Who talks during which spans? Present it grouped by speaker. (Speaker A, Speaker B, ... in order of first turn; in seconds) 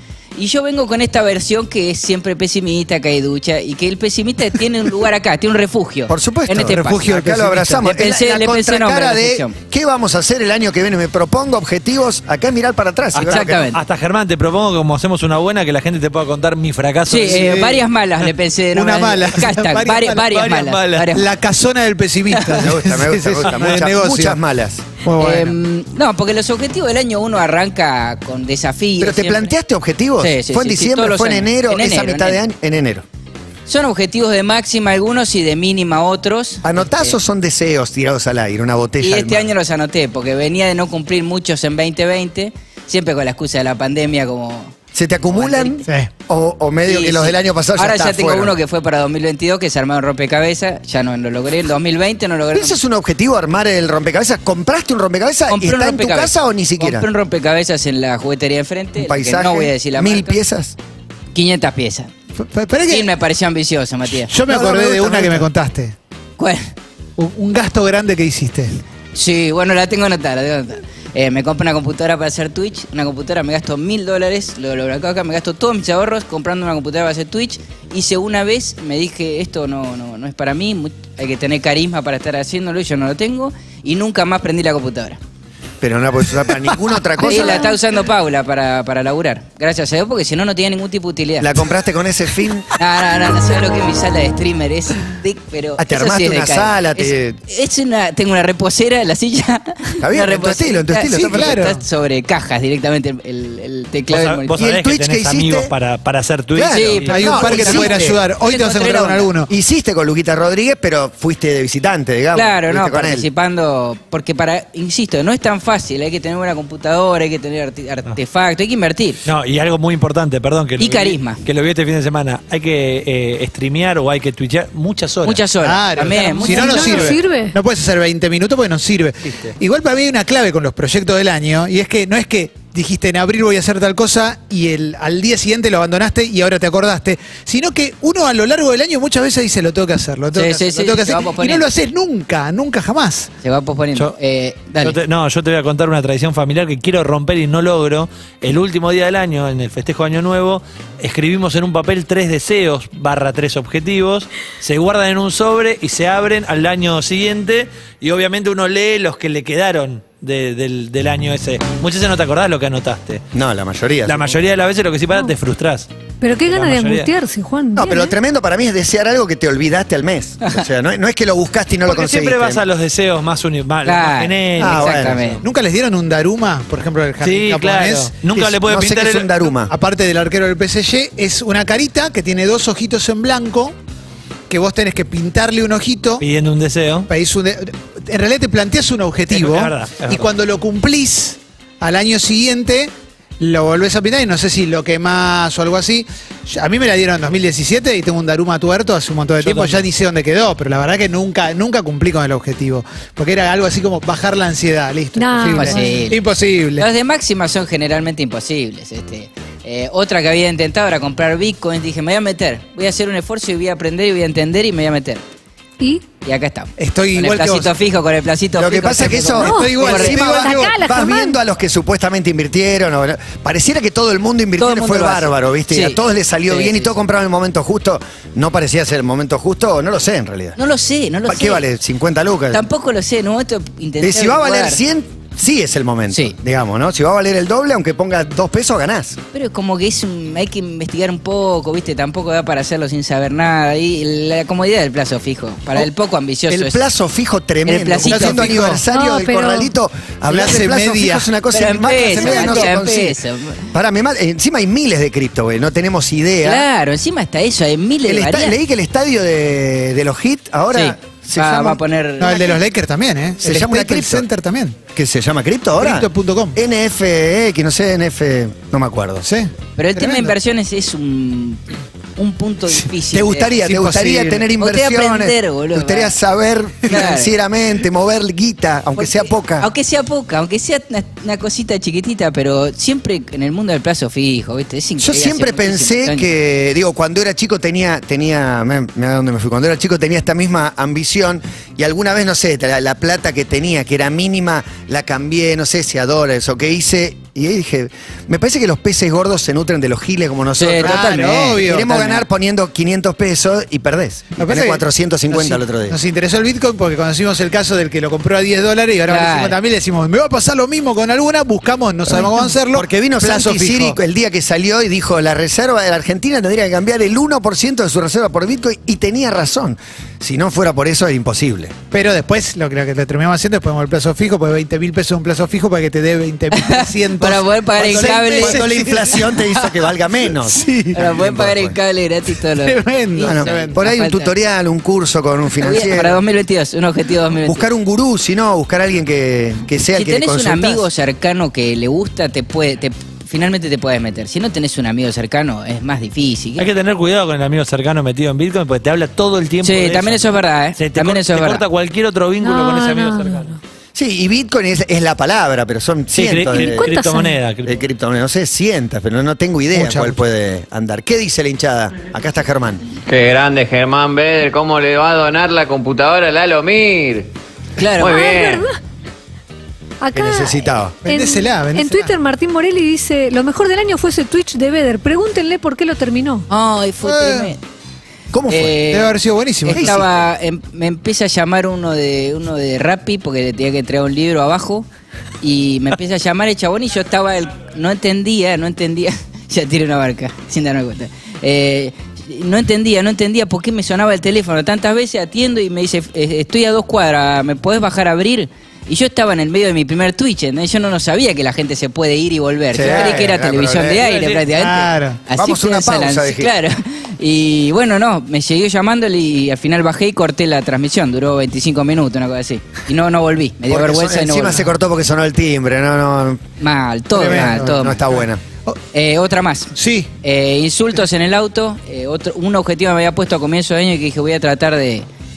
Speaker A: 0.4-7.2, 7.8-9.6, 13.2-13.8, 17.1-21.3, 22.3-22.7, 25.2-29.5, 30.2-32.4, 33.7-37.2, 39.0-44.8, 45.3-45.9, 46.9-52.8, 55.5-60.4, 61.4-62.1, 62.9-64.3, 66.4-66.7, 69.2-85.2, 87.2-91.5, 92.8-104.5, 106.7-109.3, 112.3-119.2, 120.8-121.4, 125.2-127.2, 140.3-141.7, 143.4-145.0, 173.8-175.4, 205.5-206.2, 206.8-215.2, 216.2-220.2, 224.6-227.0, 230.6-231.7, 232.5-234.8, 239.3-246.8, 247.7-248.6, 251.5-253.7, 256.4-258.6, 260.7-262.6, 269.8-271.6, 272.2-273.5, 274.6-276.2, 276.8-277.3, 279.0-286.3, 300.6-301.4, 309.1-309.6, 326.5-329.7, 330.9-334.3, 335.6-337.7, 339.9-346.7, 349.6-351.6, 367.8-368.2, 376.5-377.6, 378.5-384.9, 385.4-414.6, 416.6-418.0, 418.9-425.1
Speaker B: 6.1-13.7, 22.6-24.8, 29.0-33.0, 36.6-39.5, 44.9-48.5, 52.5-57.1, 59.0-60.8, 64.5-65.5, 85.8-87.8, 91.4-92.8, 95.8-97.4, 100.0-101.6, 104.5-105.7, 106.5-108.2, 109.5-113.3, 163.3-164.3, 167.8-172.6, 174.6-175.3, 178.3-179.7, 218.6-230.6, 231.2-232.7, 234.0-239.2, 246.5-253.2, 253.7-256.7, 258.1-261.8, 263.4-264.3, 264.9-269.3, 273.1-279.7, 285.0-306.0, 312.1-321.8, 327.8-331.8, 333.2-336.2, 337.4-340.9, 353.9-356.9, 357.6-362.8, 370.1-371.0, 378.3-378.9, 379.7-380.1, 402.7-404.0, 405.3-406.5, 413.7-416.4, 417.2-418.4
Speaker C: 6.6-7.9, 17.2-17.8, 18.7-20.3, 21.1-24.4, 25.0-25.6, 62.4-63.1, 64.3-66.0, 67.2-68.8, 101.1-101.8, 107.1-109.5, 125.6-143.3, 175.4-178.1, 179.7-183.8, 184.5-186.2, 187.1-206.9, 216.8-217.7, 219.4-220.8, 248.0-248.8, 250.3-251.3, 252.0-252.7, 262.2-264.8, 265.8-266.6, 269.2-270.4, 273.6-274.5, 300.8-302.1, 304.4-314.0, 321.9-329.2, 330.4-331.0, 332.6-333.8, 359.7-360.2, 371.0-372.1, 377.0-377.5, 378.9-380.0, 404.5-405.2, 417.1-418.8, 419.8-420.1
Speaker D: 13.1-17.5, 20.3-21.1, 104.1-107.2, 119.2-125.4, 144.8-163.2, 164.1-167.1, 171.9-175.4, 177.2-179.4, 186.2-187.1, 189.3-190.3, 199.4-199.8, 346.6-353.5, 356.1-357.8, 404.0-404.5
Speaker E: 126.2-127.6, 166.2-168.1, 205.2-206.1, 215.8-216.1, 219.4-221.4, 248.9-249.7, 352.4-353.6, 356.5-357.4, 368.0-368.8, 370.0-376.5
Speaker F: 363.1-367.3, 368.0-368.7